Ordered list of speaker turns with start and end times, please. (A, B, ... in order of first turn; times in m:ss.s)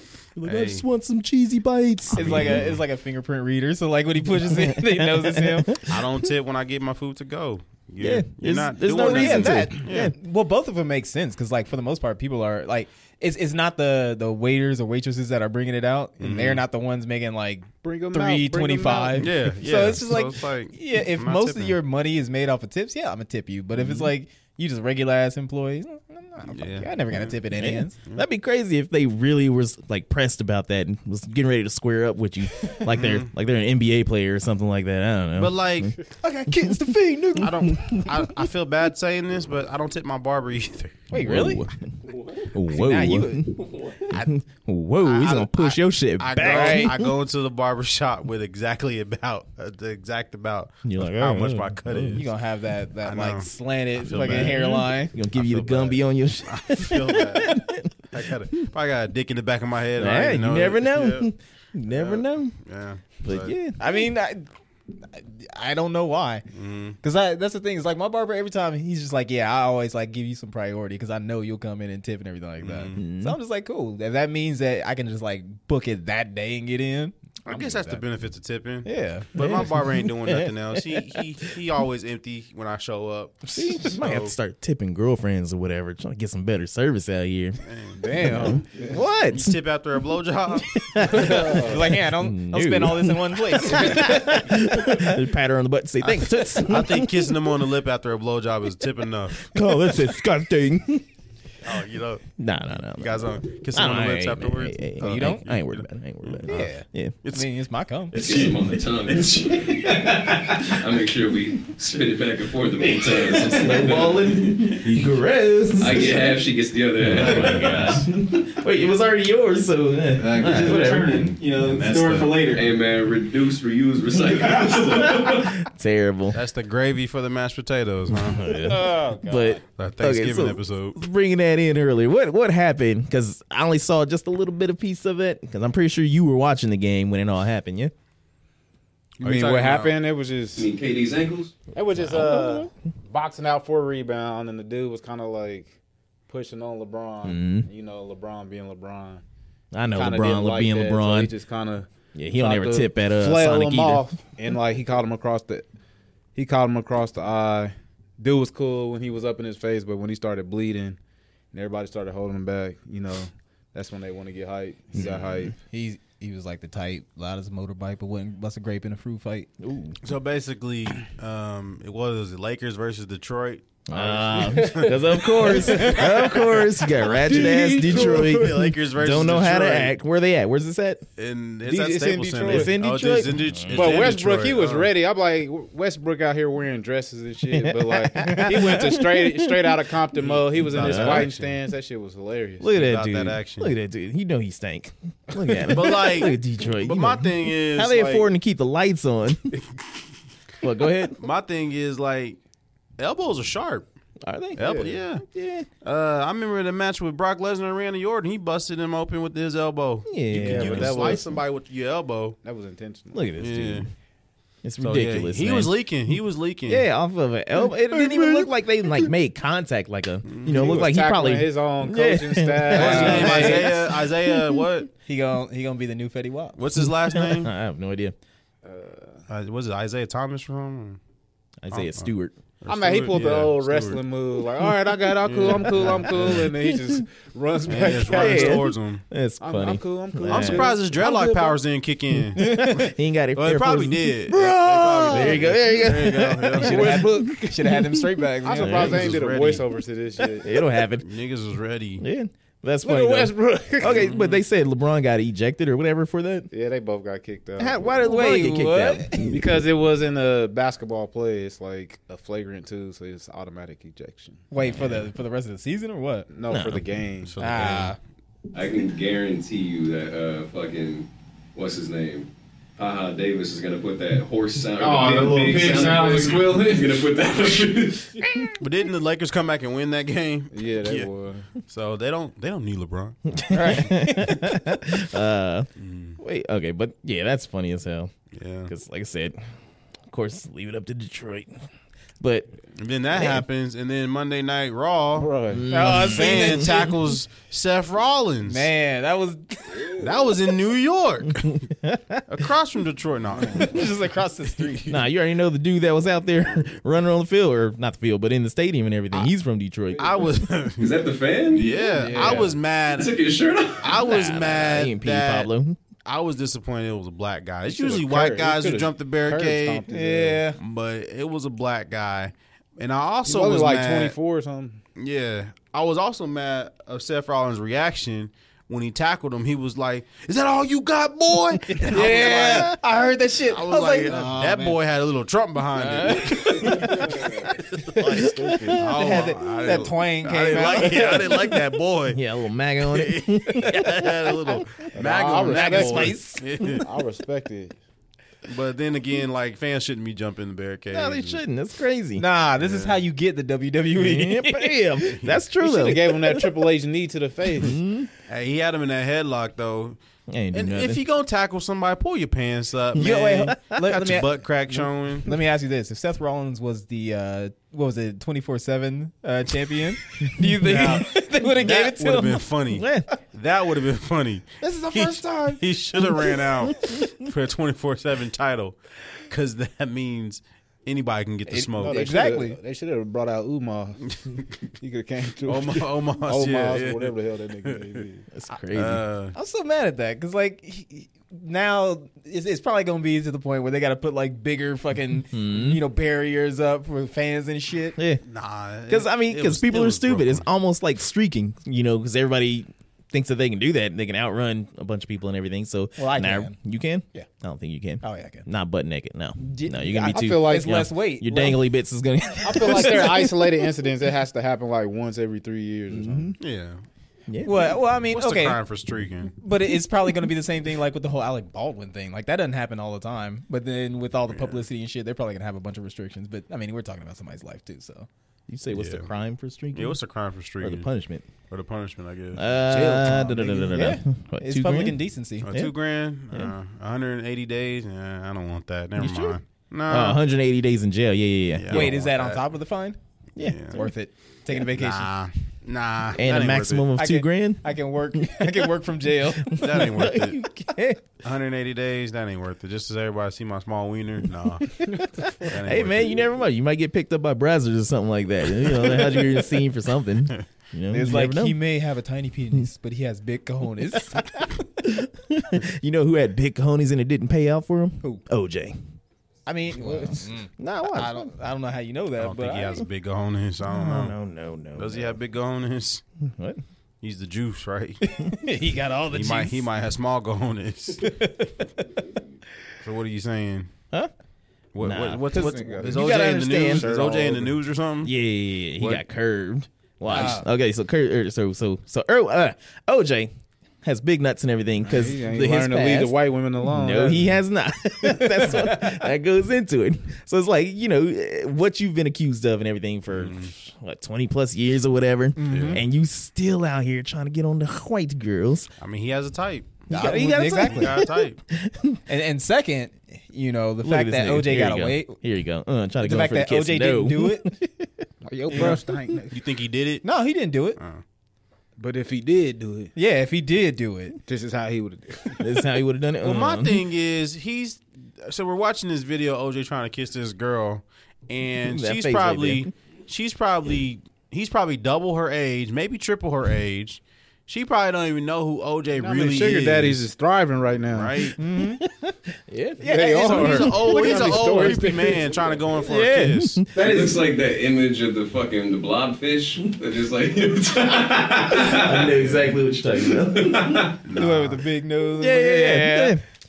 0:00.4-0:02.6 A
0:00.4-0:00.8 B
0:02.1-0:02.8 B
0:02.1-0:05.8 C
0:04.4-0:06.0 A
0:05.8-0:10.1 B
0:08.0-0:10.1 A
0:08.9-0:28.0 C
0:16.2-0:16.6 B
0:17.8-0:19.3 D
0:19.2-0:21.8 B
0:26.4-0:27.4 B
0:27.6-0:35.9 A
0:32.9-0:33.3 B
0:35.4-0:36.0 B
0:36.2-0:37.6 C
0:37.4-0:41.1 B
0:37.6-0:38.2 A
0:41.1-0:41.6 C
0:41.2-0:41.9 A
0:42.4-0:47.1 A
0:42.7-0:43.7 C
0:45.0-0:52.3 B
0:46.4-0:46.9 C
0:50.8-0:52.2 A
0:52.1-0:55.2 C
0:53.0-0:57.6 B
0:54.1-0:58.1 A
0:58.1-1:01.3 B
1:00.0-1:02.6 A
1:01.8-1:03.5 B
1:03.2-1:03.8 A
1:03.8-1:04.5 C
1:05.1-1:06.4 C
1:06.5-1:07.0 B
1:07.0-1:18.0 C
1:12.6-1:13.0 B
1:13.0-1:13.4 A
1:17.5-1:24.3 B
1:18.8-1:19.3 C
1:19.4-1:21.2 A
1:23.5-1:27.6 A
1:27.6-1:28.0 B
1:27.9-1:29.1 D
1:28.2-1:29.6 A
1:29.3-1:31.5 B
1:30.6-1:37.5 A
1:31.1-1:31.9 D
1:31.4-1:35.1 C
1:36.6-1:39.6 B
1:39.4-1:41.0 A
1:41.6-1:46.7 B
1:42.4-1:47.2 A
1:46.5-1:48.2 C
1:47.2-1:47.5 B
1:48.1-1:49.3 B
1:48.1-1:54.5 E
1:49.7-1:50.8 A
1:52.8-1:56.4 A
1:54.8-1:55.1 B
1:55.8-1:58.0 E
1:57.0-2:01.3 A
1:57.2-1:58.0 B
2:00.2-2:02.6 B
2:00.4-2:02.6 C
2:02.5-2:05.6 E
2:04.4-2:06.4 A
2:06.3-2:08.5 B
2:08.1-2:17.9 A
2:08.4-2:09.6 D
2:09.8-2:11.0 B
2:19.2-2:20.7 D
2:19.2-2:20.0 B
2:20.6-2:21.5 E
2:21.7-2:25.7 D
2:22.0-2:22.7 A
2:26.3-2:29.2 D
2:27.2-2:27.7 A
2:29.7-2:31.3 A
2:29.9-2:35.6 D
2:32.1-2:34.0 A
2:36.3-2:41.0 D
2:41.5-2:45.5 D
2:44.9-2:45.5 A
2:45.6-2:49.5 C
2:49.6-2:50.0 A
2:50.0-2:59.9 B
2:53.9-3:01.0 A
2:54.4-2:56.4 D
2:56.9-2:58.6 D
3:01.2-3:04.9 B
3:01.6-3:02.7 D
3:02.4-3:04.1 A
3:03.7-3:12.8 D
3:07.6-3:09.6 A
3:10.2-3:11.6 B
3:10.7-3:11.3 A
3:12.6-3:19.4 A
3:12.7-3:13.7 B
3:15.7-3:18.3 B
3:20.6-3:21.2 A
3:21.2-3:22.4 B
3:23.0-3:23.9 B
3:24.2-3:24.6 A
3:24.6-3:25.2 B
3:24.6-3:25.0 D
3:25.2-3:25.7 A
3:25.8-3:32.4 B
3:30.1-3:31.2 A
3:30.3-3:31.4 D
3:32.4-3:33.3 D
3:33.1-3:33.9 A
3:33.4-3:33.9 B
3:34.6-3:35.7 A
3:34.8-3:36.8 B
3:36.6-3:44.6 A
3:38.0-3:38.4 B
3:40.2-3:40.8 B
3:40.4-3:43.8 D
3:42.7-3:44.9 B
3:42.7-3:43.7 C
3:45.0-3:46.6 C
3:46.6-3:47.5 B
3:46.7-3:48.1 A
3:48.6-3:49.2 D
3:49.3-3:51.0 B
3:51.6-3:52.4 A
3:51.7-3:54.0 B
3:52.7-3:58.7 D
3:55.2-3:56.5 B
3:55.6-3:57.0 A
3:57.6-3:59.0 B
3:58.1-4:00.8 A
3:59.4-4:01.6 D
4:00.3-4:07.0 B
4:02.3-4:07.9 A
4:02.4-4:02.9 C
4:05.1-4:05.7 D
4:06.5-4:09.1 C
4:06.7-4:07.5 D
4:08.4-4:10.6 D
4:08.6-4:09.1 A
4:08.7-4:09.6 B
4:10.4-4:11.0 A
4:11.0-4:12.0 B
4:12.0-4:16.5 A
4:12.8-4:14.2 D
4:13.8-4:14.4 B
4:16.5-4:18.1 D
4:17.6-4:19.4 A
4:18.0-4:19.4 C
4:19.2-4:24.4 D
4:24.5-4:26.3 C
4:24.6-4:25.0 A
4:26.3-4:27.4 D
4:26.5-4:26.8 A
4:27.2-4:27.9 B
4:27.4-4:28.0 C
4:28.5-4:38.3 E
4:34.8-4:36.9 D
4:35.5-4:36.0 B
4:38.6-4:41.1 B
4:40.5-4:41.5 D
4:41.6-4:43.4 B
4:43.3-4:48.2 A
4:43.5-4:44.6 C
4:45.8-4:46.2 B
4:48.3-4:48.7 B
4:48.7-4:49.5 A
4:50.1-4:51.5 A
4:52.2-4:52.5 A
4:52.8-4:55.3 B
4:53.1-4:53.4 A
4:55.1-4:55.7 D
4:55.5-4:56.9 A
4:55.7-4:56.9 C
4:55.9-4:58.7 B
4:58.4-5:00.1 C
4:59.9-5:01.6 B
5:01.7-5:02.2 A
5:02.3-5:03.9 B
5:03.4-5:05.0 C
5:04.9-5:10.3 A
5:10.0-5:10.9 B
5:10.8-5:11.7 E
5:11.5-5:13.1 B
5:11.9-5:12.5 C
5:12.0-5:12.5 D
5:12.9-5:14.0 E
5:13.8-5:15.5 B
5:14.0-5:15.8 A
5:16.0-5:19.8 B
5:17.7-5:20.4 D
5:19.9-5:20.6 C
5:20.6-5:24.2 B
5:23.2-5:24.8 D
5:24.9-5:32.8 B
5:31.7-5:34.8 C
5:33.4-5:37.0 B
5:35.8-5:41.5 C
5:36.8-5:38.8 D
5:37.7-5:38.1 B
5:38.0-5:38.8 A
5:38.7-5:42.2 B
5:42.1-5:44.6 A
5:42.8-5:46.8 B
5:43.5-5:43.8 C
5:44.9-5:46.2 D
5:45.5-5:46.4 C
5:45.5-5:46.8 A
5:46.8-5:47.8 D
5:48.5-5:51.4 B
5:50.9-5:52.2 A
5:52.2-5:54.9 C
5:52.6-5:53.0 B
5:53.9-5:56.6 A
5:55.0-5:55.4 B
5:55.6-5:57.8 D
5:57.6-5:58.1 A
5:58.3-6:00.0 B
6:00.3-6:01.0 A
6:00.5-6:05.3 B
6:02.9-6:03.8 A
6:02.9-6:12.4 C
6:10.4-6:11.0 A
6:11.6-6:18.8 B
6:12.7-6:13.1 A
6:14.6-6:16.4 C
6:19.3-6:22.1 B
6:21.5-6:22.6 C
6:21.8-6:24.1 D
6:24.8-6:28.2 D
6:25.4-6:27.1 B
6:27.6-6:28.0 B
6:28.3-6:29.0 A
6:28.7-6:29.3 B
6:29.3-6:38.0 C
6:35.3-6:35.8 A
6:38.0-6:38.2 A
6:38.2-6:40.4 B
6:38.9-6:53.3 A
6:46.0-6:46.5 C
6:48.0-6:48.4 C
6:49.4-6:51.6 C
6:50.0-6:50.8 D
6:52.4-6:56.4 D
6:52.6-6:53.1 C
6:55.9-6:56.3 A
6:56.4-6:56.8 B
6:57.3-6:57.8 A
6:57.4-6:58.6 C
6:58.1-6:59.3 B
6:59.4-7:08.1 C
7:04.3-7:04.6 B
7:08.5-7:10.0 A
7:08.7-7:09.1 B
7:09.7-7:10.9 B
7:10.6-7:11.3 A
7:11.4-7:12.5 B
7:12.3-7:15.7 A
7:12.7-7:15.5 C
7:15.4-7:20.2 B
7:19.0-7:21.9 A
7:21.5-7:22.4 B
7:21.7-7:23.0 C
7:23.4-7:23.8 B
7:23.4-7:23.9 A
7:23.7-7:25.1 C
7:24.5-7:26.9 B
7:26.2-7:28.7 A
7:27.0-7:29.9 C
7:29.5-7:31.1 A
7:29.5-7:30.5 B
7:31.2-7:36.3 B
7:35.4-7:41.6 A
7:40.9-7:44.4 C
7:44.0-7:48.8 A
7:49.4-7:52.8 C
7:49.7-7:51.3 A
7:52.2-7:54.2 B
7:53.6-7:55.2 A
7:54.7-7:56.0 B
7:56.2-7:56.6 A
7:57.0-7:58.0 B
7:58.0-7:59.7 C
7:59.1-8:01.2 B
8:01.0-8:01.8 C
8:02.8-8:03.7 B
8:04.7-8:08.1 B
8:04.8-8:06.9 A
8:05.3-8:07.6 D
8:08.0-8:13.3 A
8:10.1-8:10.5 C
8:13.8-8:28.7 A
8:14.8-8:17.4 D
8:18.1-8:19.0 C
8:23.1-8:23.5 B
8:25.4-8:25.8 C
8:25.5-8:25.8 B
8:28.8-8:29.9 B
8:29.9-8:31.0 C
8:29.9-8:32.0 A
8:30.6-8:31.4 B
8:32.1-8:35.2 C
8:33.8-8:37.7 A
8:36.0-8:37.6 C
8:38.2-8:39.3 D
8:38.5-8:38.8 C
8:39.3-8:40.0 B
8:40.0-8:40.8 C
8:40.8-8:41.0 B
8:41.8-8:42.9 D
8:42.9-8:44.2 C
8:44.3-8:45.5 D
8:45.4-8:46.8 A
8:46.2-9:00.0 B
8:51.6-8:52.7 A
8:59.0-9:01.3 D
9:00.9-9:01.4 B
9:01.4-9:01.8 C
9:01.6-9:02.4 A
9:02.5-9:05.1 C
9:02.8-9:05.6 D
9:02.9-9:03.9 A
9:03.1-9:06.6 B
9:05.8-9:07.1 A
9:06.7-9:12.5 E
9:06.8-9:07.1 C
9:11.1-9:13.9 A
9:13.1-9:13.9 E
9:14.0-9:14.6 B
9:14.1-9:16.2 C
9:15.2-9:16.2 A